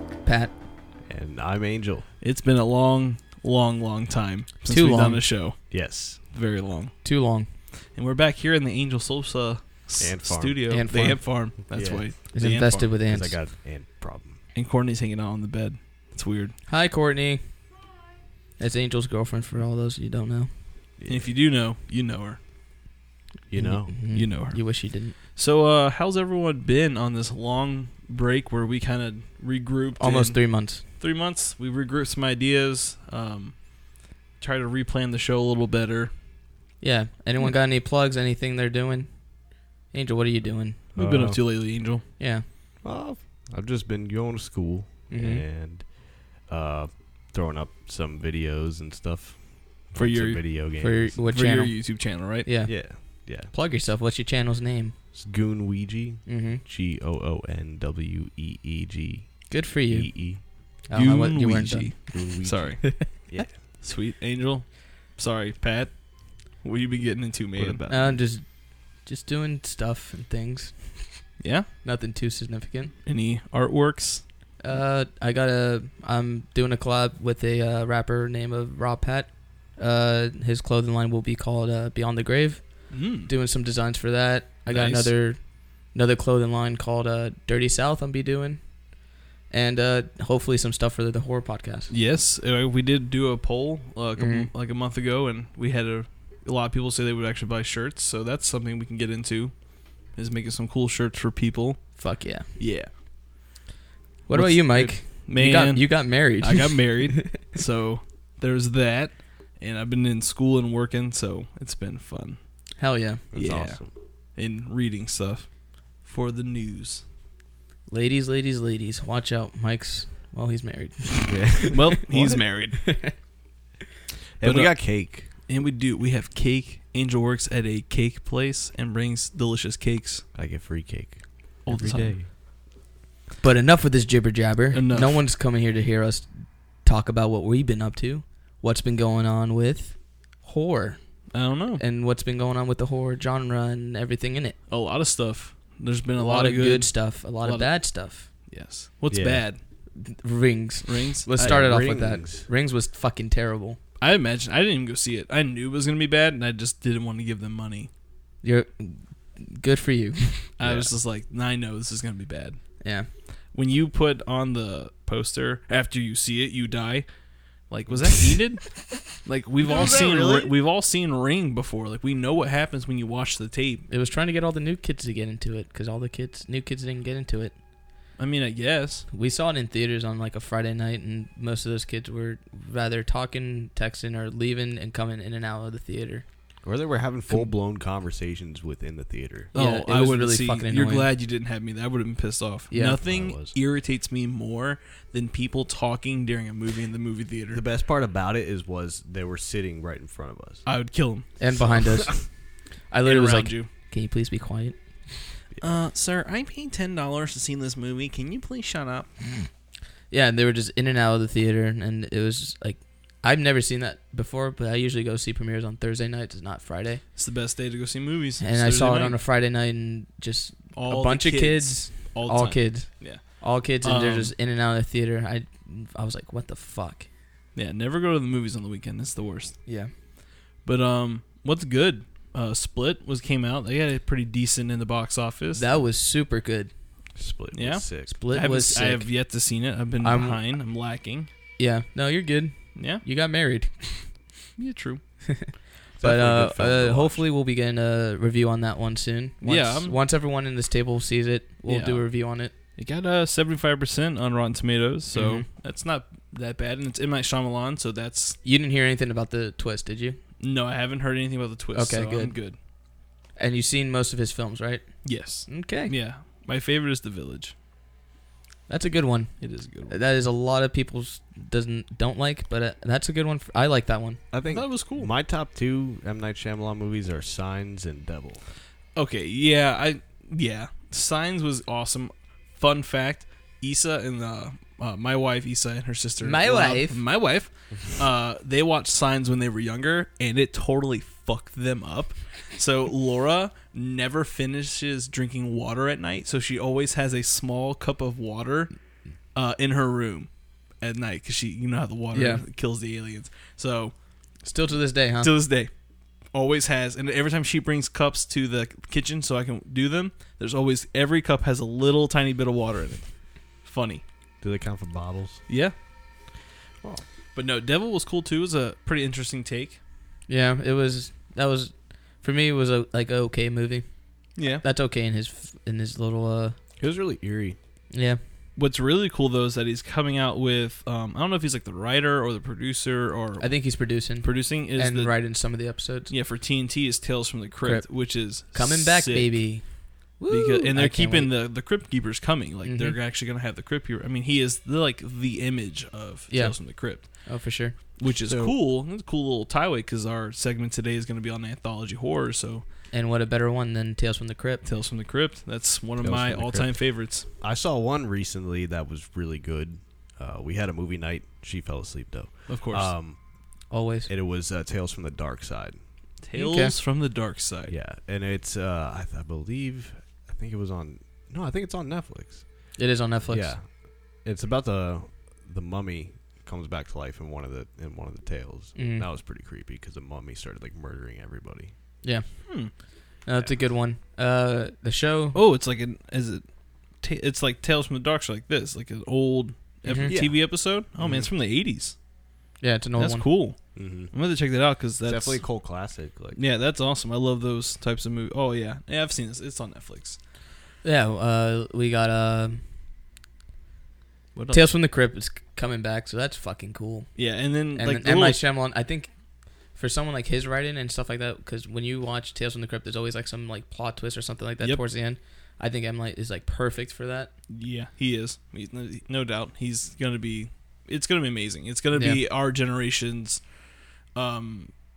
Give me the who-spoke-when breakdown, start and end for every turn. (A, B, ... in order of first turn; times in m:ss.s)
0:00.2-0:00.5 A
0:01.1-0:02.1 B
0:02.2-0:07.1 C
0:04.7-0:05.3 A
0:05.7-0:06.2 B
0:07.0-0:07.5 A
0:07.9-0:12.9 C
0:10.0-0:10.7 B
0:10.7-0:11.5 A
0:11.7-0:12.1 B
0:12.3-0:13.4 A
0:12.9-0:14.4 B
0:14.5-0:16.6 C
0:16.7-0:17.7 A
0:18.6-0:20.6 A
0:21.0-0:21.3 B
0:21.1-0:22.4 C
0:23.5-0:24.1 B
0:23.5-0:25.2 A
0:24.1-0:36.1 C
0:30.0-0:30.8 A
0:36.8-0:40.8 A
0:41.0-0:42.0 C
0:41.0-0:41.4 B
0:42.2-0:42.4 A
0:42.8-0:51.2 B
0:45.1-0:45.4 A
0:50.0-0:50.6 C
0:50.8-0:55.0 A
0:51.2-0:52.5 C
0:52.6-0:53.5 B
0:55.1-1:00.4 B
0:56.3-0:56.6 A
0:59.5-1:02.2 A
1:00.9-1:08.2 C
1:02.1-1:03.6 B
1:02.8-1:03.1 A
1:07.6-1:08.2 B
1:07.9-1:12.9 A
1:11.4-1:11.7 C
1:13.0-1:14.3 C
1:14.6-1:29.0 A
1:22.9-1:23.3 C
1:24.7-1:25.1 C
1:29.5-1:31.9 A
1:31.9-1:42.9 C
1:34.2-1:34.5 A
1:42.0-1:42.5 A
1:44.3-1:47.4 A
1:44.3-1:52.6 C
1:52.8-1:53.2 A
1:53.3-1:53.9 B
1:53.3-1:57.0 C
1:57.9-2:03.2 A
2:01.2-2:02.4 B
2:01.7-2:03.2 C
2:04.4-2:05.3 B
2:04.4-2:10.2 C
2:10.3-2:12.3 B
2:11.7-2:12.2 C
2:13.4-2:24.6 A
2:14.7-2:15.2 C
2:21.3-2:21.8 C
2:24.7-2:29.6 C
2:26.2-2:28.3 A
2:29.1-2:29.4 B
2:30.0-2:33.8 A
2:30.9-2:31.3 C
2:31.4-2:32.5 B
2:34.0-2:37.9 C
2:38.4-2:40.5 A
2:40.6-2:42.8 C
2:40.6-2:40.9 B
2:42.8-2:43.1 A
2:43.5-2:53.9 C
2:49.6-2:50.5 B
2:53.9-2:57.6 A
2:58.2-2:59.1 C
2:59.1-3:06.2 A
3:06.6-3:09.5 B
3:09.5-3:17.6 C
3:09.5-3:11.1 A
3:12.7-3:13.0 A
3:13.0-3:13.5 B
3:17.5-3:20.6 B
3:20.6-3:21.4 C
3:21.4-3:22.3 A
3:21.5-3:22.3 B
3:22.9-3:24.8 A
3:23.0-3:23.7 C
3:25.5-3:25.8 B
3:25.6-3:29.3 C
3:30.1-3:37.0 A
3:37.2-3:39.2 C
3:38.4-3:47.1 A
3:40.7-3:44.3 C
3:47.6-3:49.6 C
3:49.7-3:49.9 A
3:50.6-3:55.7 C
3:55.6-3:56.7 A
3:57.2-3:58.1 B
3:57.5-4:01.3 C
3:58.1-3:59.1 A
4:00.0-4:00.4 A
4:01.6-4:04.2 A
4:02.8-4:03.0 C
4:04.6-4:05.0 C
4:05.3-4:12.5 A
4:05.9-4:07.2 B
4:09.4-4:10.0 C
4:11.7-4:12.1 C
4:12.8-4:18.4 C
4:15.1-4:15.4 A
4:18.4-4:20.2 A
4:20.4-4:22.6 C
4:21.7-4:22.4 A
4:23.4-4:25.9 A
4:25.0-4:27.5 C
4:28.7-4:34.2 A
4:29.4-4:30.0 C
4:34.3-4:38.4 B
4:34.5-4:35.1 C
4:39.0-4:58.8 C
4:46.2-4:47.0 A
4:59.3-5:03.9 C
5:02.1-5:02.4 A
5:04.4-5:05.3 A
5:05.2-5:05.7 C
5:06.3-5:14.0 C
5:14.4-5:15.4 B
5:15.5-5:15.8 C
5:17.4-5:19.8 C
5:20.3-5:26.6 A
5:24.4-5:24.6 C
5:26.8-5:27.6 B
5:27.9-5:28.2 A
5:28.6-5:35.4 C
5:33.4-5:36.1 A
5:36.1-5:39.6 C
5:37.6-5:41.3 A
5:40.3-5:47.4 C
5:42.6-5:43.0 A
5:46.3-5:47.8 A
5:48.0-5:52.6 C
5:48.2-5:48.6 B
5:52.9-5:54.6 A
5:54.6-5:57.2 C
5:56.0-6:03.2 B
6:02.5-6:02.9 C
6:03.7-6:04.1 A
6:04.1-6:05.8 B
6:06.2-6:07.7 C
6:06.4-6:06.7 A
6:07.7-6:12.8 B
6:12.8-6:13.5 A
6:13.3-6:21.7 B
6:18.8-6:19.1 A
6:22.0-6:25.4 A
6:22.5-6:22.7 C
6:25.3-6:26.4 C
6:27.0-6:32.0 C
6:29.9-6:30.1 A
6:30.0-6:31.3 B
6:32.6-6:33.2 A
6:33.0-6:35.4 C
6:33.8-6:34.1 B
6:35.0-6:36.4 B
6:36.3-6:40.2 C
6:40.8-6:42.6 A
6:44.4-6:44.7 C
6:44.5-6:49.1 A
6:47.2-6:48.4 C
6:49.7-6:57.3 A
6:57.5-7:03.5 C
7:01.9-7:02.2 A
7:04.1-7:04.7 C